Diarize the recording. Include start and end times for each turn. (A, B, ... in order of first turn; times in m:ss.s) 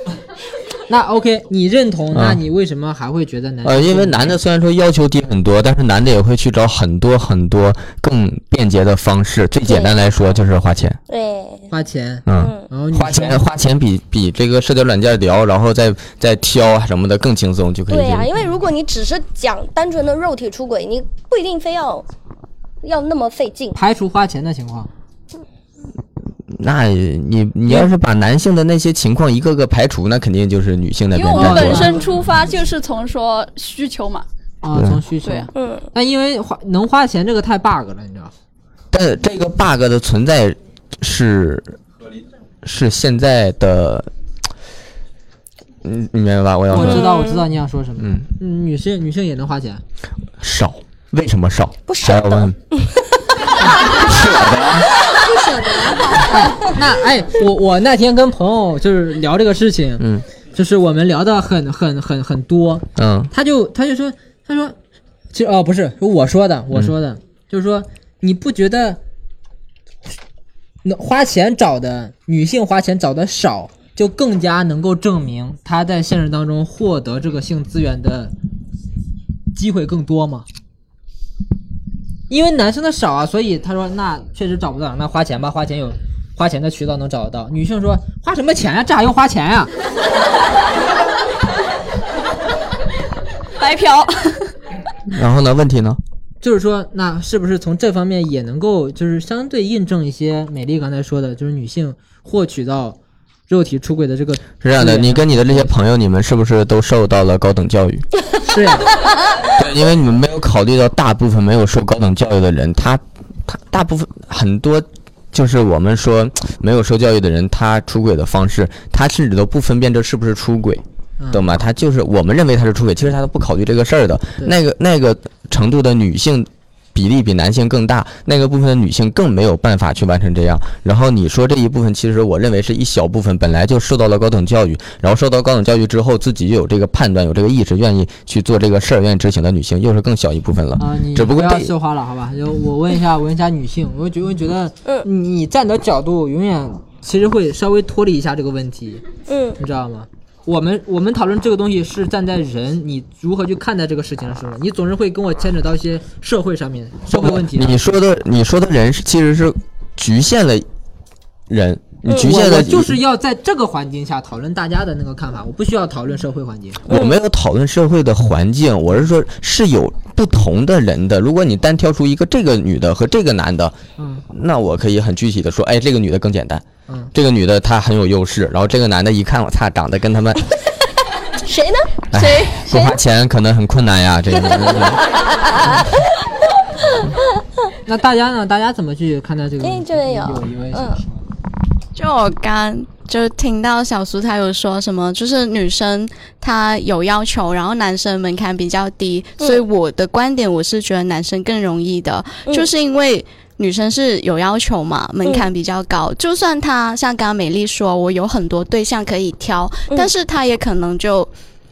0:00.9-0:04.4 A
0:02.1-0:02.4 B
0:03.6-0:11.0 B
0:09.7-0:09.9 C
0:11.1-0:11.7 C
0:11.7-0:13.4 A
0:12.3-0:18.3 B
0:12.4-0:12.6 C
0:17.9-0:22.0 C
0:22.8-0:23.8 C
0:23.7-0:24.9 A
0:26.5-0:32.0 B
0:31.1-0:34.3 D
0:31.3-0:32.0 A
0:34.6-0:38.3 A
0:34.7-0:35.0 B
0:35.2-0:35.5 D
0:35.6-0:35.9 C
0:38.9-0:41.8 B
0:42.6-0:44.1 B
0:45.8-0:47.0 B
0:46.7-0:49.8 A
0:46.8-0:47.4 C
0:48.0-0:48.3 B
0:50.4-0:52.5 B
0:51.9-0:52.8 C
0:53.9-0:54.9 B
0:55.1-0:56.5 C
0:56.3-1:04.8 A
1:00.0-1:00.2 B
1:03.0-1:03.3 B
1:05.3-1:09.0 A
1:10.8-1:18.3 A
1:19.5-1:20.4 A
1:22.3-1:29.7 A
1:33.6-1:34.5 D
1:35.1-1:36.0 B
1:36.4-1:43.0 A
1:43.5-1:45.7 A
1:44.6-1:48.0 B
1:48.5-1:48.9 A
1:49.6-2:21.7 B
2:01.2-2:01.4 A
2:20.8-2:29.0 A
2:29.3-2:29.6 C
2:29.6-2:37.9 A
2:37.1-2:40.7 B
2:41.5-2:42.9 B
2:42.1-2:42.4 C
2:42.2-2:46.8 A
2:46.9-2:47.2 C
2:46.9-2:53.8 B
2:54.0-2:54.2 A
2:54.3-3:00.4 B
3:01.4-3:02.0 C
3:02.1-3:05.0 B
3:07.8-3:11.2 A
3:09.6-3:11.0 C
3:11.9-3:31.3 E